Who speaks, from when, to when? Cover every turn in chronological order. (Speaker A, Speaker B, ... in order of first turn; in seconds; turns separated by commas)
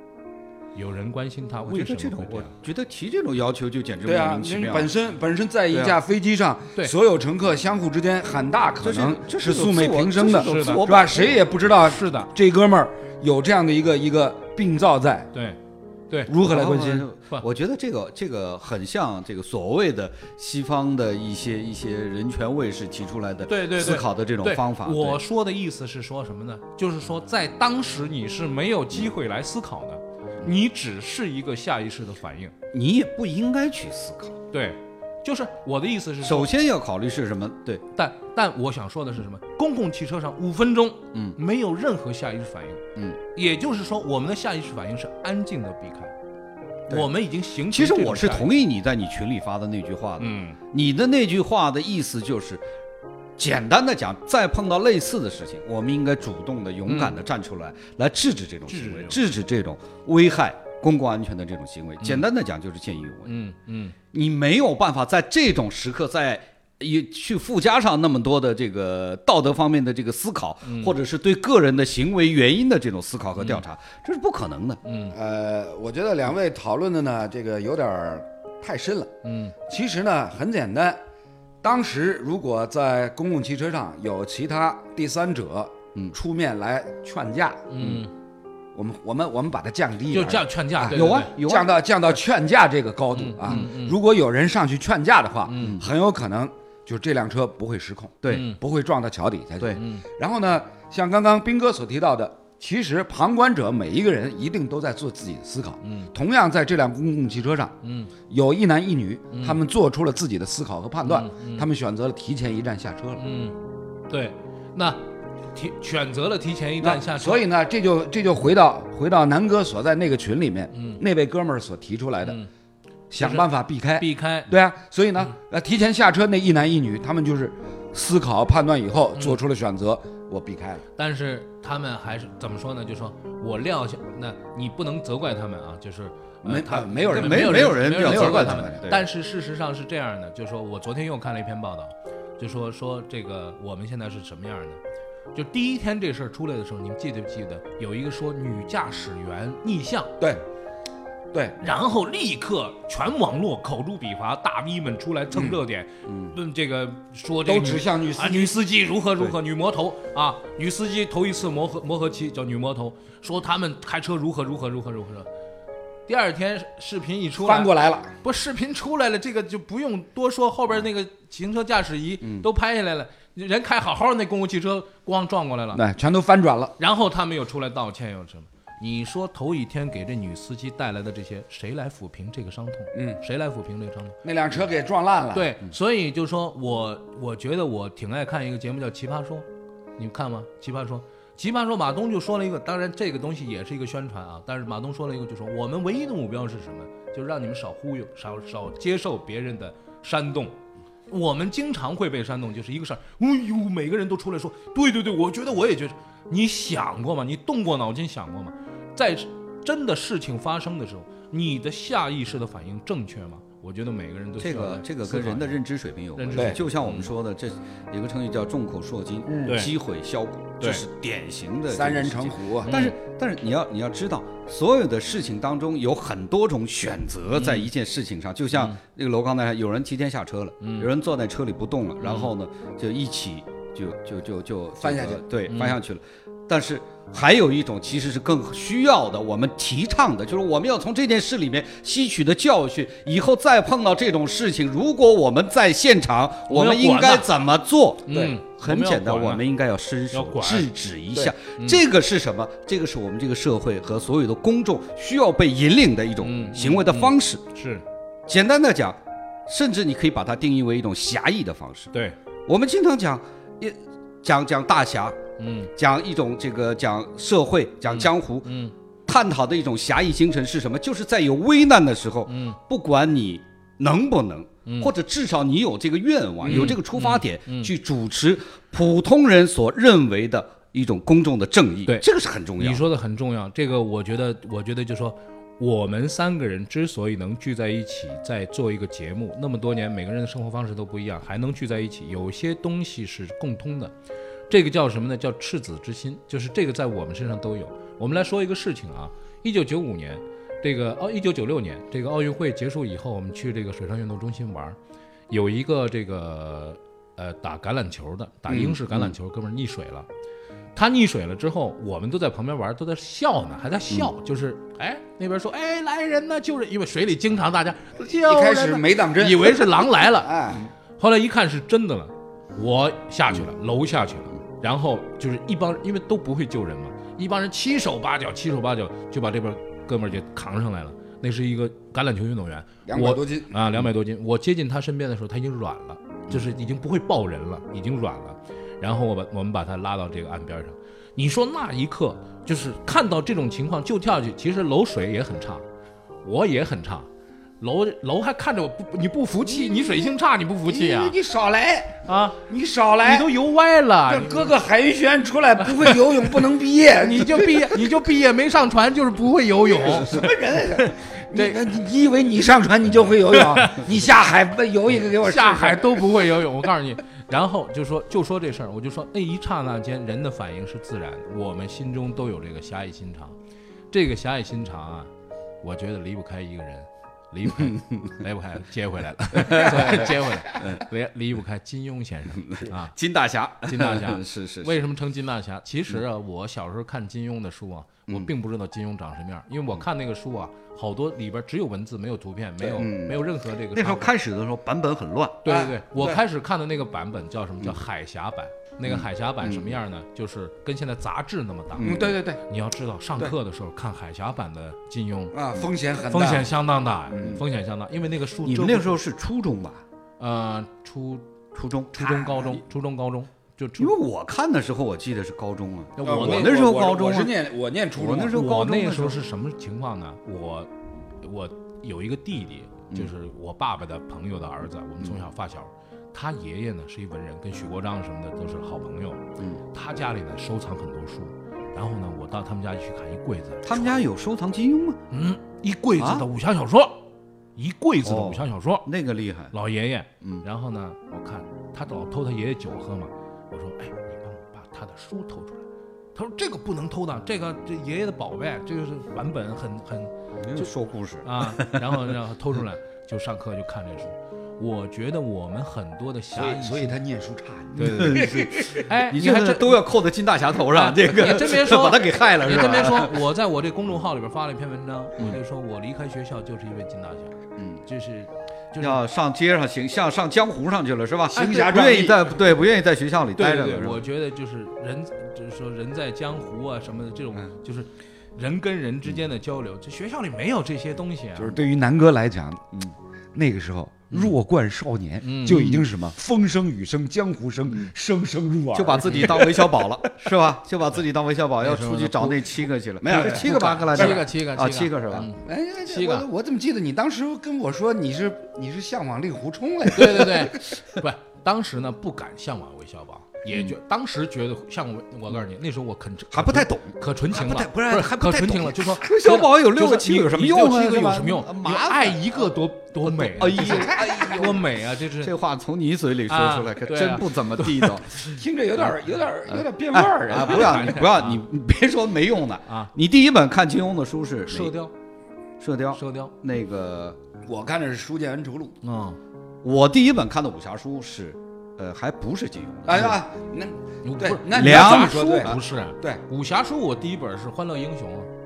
Speaker A: 0.7-2.5, Speaker B: 1.6-4.9, Speaker C: 4.0-15.3, Speaker B: 5.7-6.0, Speaker B: 8.8-11.4, Speaker A: 10.3-10.8, Speaker A: 11.8-12.3, Speaker A: 15.3-15.6, Speaker A: 16.1-16.3, Speaker C: 16.3-17.1, Speaker B: 16.3-25.2, Speaker A: 23.5-32.5, Speaker B: 32.7-34.4, Speaker A: 34.5-36.5, Speaker B: 36.2-37.8, Speaker A: 37.9-42.8, Speaker A: 43.3-46.1, Speaker A: 46.9-48.5, Speaker B: 47.7-52.6, Speaker A: 50.2-50.6, Speaker B: 53.4-63.4, Speaker A: 56.9-57.1, Speaker A: 58.7-59.2, Speaker A: 62.0-62.2, Speaker A: 63.2-63.9, Speaker B: 64.1-74.8, Speaker A: 70.6-70.9, Speaker A: 74.8-75.1, Speaker C: 75.1-79.1, Speaker A: 79.2-79.5, Speaker C: 79.7-81.0, Speaker C: 81.6-87.7, Speaker A: 87.7-88.1, Speaker C: 88.7-107.7, Speaker A: 90.1-91.3, Speaker B: 90.9-91.7, Speaker A: 93.1-94.0, Speaker A: 95.5-95.8, Speaker B: 95.6-95.8, Speaker B: 98.2-98.5, Speaker A: 98.3-98.6, Speaker A: 99.8-100.0, Speaker A: 105.8-106.1, Speaker A: 107.8-108.1, Speaker C: 108.3-113.2, Speaker A: 109.3-109.6, Speaker A: 111.0-111.7, Speaker A: 113.2-113.5, Speaker A: 114.1-115.0, Speaker A: 115.5-117.4, Speaker C: 116.8-122.4, Speaker A: 120.7-121.0, Speaker A: 122.2-122.5, Speaker C: 123.1-130.8, Speaker A: 123.2-124.5, Speaker A: 131.0-144.8, Speaker C: 136.4-138.9, Speaker B: 137.1-139.0, Speaker A: 145.3-150.1, Speaker A: 151.6-165.3, Speaker B: 156.1-156.3, Speaker C: 157.4-158.6, Speaker A: 166.1-167.7, Speaker C: 167.4-168.1, Speaker A: 168.2-175.8, Speaker C: 175.7-176.7, Speaker A: 176.8-184.2, Speaker C: 182.9-183.2, Speaker C: 184.2-185.5, Speaker A: 185.3-189.4, Speaker A: 190.0-200.6, Speaker A: 201.1-215.6, Speaker B: 214.4-257.4, Speaker A: 216.2-217.1, Speaker A: 219.4-219.7, Speaker C: 221.7-222.7, Speaker A: 222.6-222.9, Speaker A: 227.3-227.7, Speaker A: 230.6-230.9, Speaker A: 232.0-232.3, Speaker C: 234.8-235.2, Speaker A: 235.5-235.8, Speaker A: 246.5-247.3, Speaker A: 248.1-249.4, Speaker A: 250.1-250.7, Speaker A: 256.2-257.8, Speaker B: 258.3-261.9, Speaker B: 262.5-265.2, Speaker A: 265.4-265.7, Speaker B: 265.8-268.5, Speaker A: 267.9-268.7, Speaker B: 269.1-282.8, Speaker A: 272.3-272.6, Speaker A: 274.6-274.9, Speaker C: 276.4-276.8, Speaker A: 276.4-277.7, Speaker A: 282.6-293.9, Speaker A: 294.5-304.8, Speaker A: 305.3-310.1, Speaker B: 308.5-309.1, Speaker A: 310.7-320.3, Speaker C: 318.1-320.6, Speaker A: 321.0-345.6, Speaker C: 332.9-333.5, Speaker A: 346.2-347.1, Speaker A: 347.6-351.1, Speaker C: 349.4-350.1, Speaker C: 350.6-353.3, Speaker A: 352.1-352.4, Speaker A: 353.0-354.5, Speaker C: 354.1-357.9, Speaker A: 357.0-360.2, Speaker C: 359.7-366.1, Speaker A: 360.8-361.6, Speaker A: 363.3-363.8, Speaker A: 365.2-373.4, Speaker A: 373.9-375.1, Speaker A: 375.6-382.9, Speaker B: 379.3-380.8, Speaker B: 382.4-384.8, Speaker A: 383.6-394.1, Speaker B: 392.6-393.2, Speaker B: 393.7-395.4, Speaker A: 395.4-405.4, Speaker C: 395.4-396.2, Speaker B: 398.8-399.8, Speaker B: 401.7-402.1, Speaker C: 401.8-402.4, Speaker C: 405.3-406.5, Speaker A: 406.1-409.0, Speaker C: 407.1-407.4, Speaker B: 408.4-409.8, Speaker A: 410.2-411.3, Speaker B: 411.5-412.5, Speaker A: 411.9-413.9, Speaker B: 413.8-417.3, Speaker A: 416.0-416.6, Speaker C: 416.0-418.4, Speaker B: 417.9-419.2, Speaker A: 418.3-420.7, Speaker A: 421.2-429.2, Speaker A: 429.7-434.0, Speaker B: 433.6-435.0, Speaker A: 435.1-437.0, Speaker B: 436.0-436.2, Speaker A: 437.6-438.9, Speaker B: 438.0-439.5, Speaker A: 439.5-450.7, Speaker B: 450.4-452.1, Speaker A: 451.2-457.0, Speaker C: 456.3-458.9, Speaker A: 457.8-459.8, Speaker B: 457.8-463.2, Speaker A: 460.7-469.0, Speaker B: 468.8-474.0, Speaker C: 471.3-472.4, Speaker A: 473.4-481.6, Speaker C: 481.4-482.7, Speaker C: 483.3-489.9, Speaker A: 485.2-485.8, Speaker B: 485.4-485.8, Speaker B: 488.7-495.3, Speaker A: 491.6-492.6, Speaker C: 493.0-494.2, Speaker A: 493.1-496.2, Speaker C: 495.4-500.7, Speaker A: 499.9-515.3, Speaker B: 506.3-512.5, Speaker B: 513.0-514.6, Speaker C: 513.5-514.6, Speaker B: 515.2-518.2, Speaker A: 516.3-518.0, Speaker C: 518.3-521.0, Speaker B: 519.5-524.7, Speaker A: 520.4-521.4, Speaker A: 524.5-524.9, Speaker B: 525.6-527.2, Speaker A: 525.9-526.3, Speaker C: 527.4-528.8, Speaker A: 528.8-529.2, Speaker B: 529.6-533.2, Speaker C: 532.9-536.2, Speaker A: 534.0-538.3, Speaker B: 534.5-535.6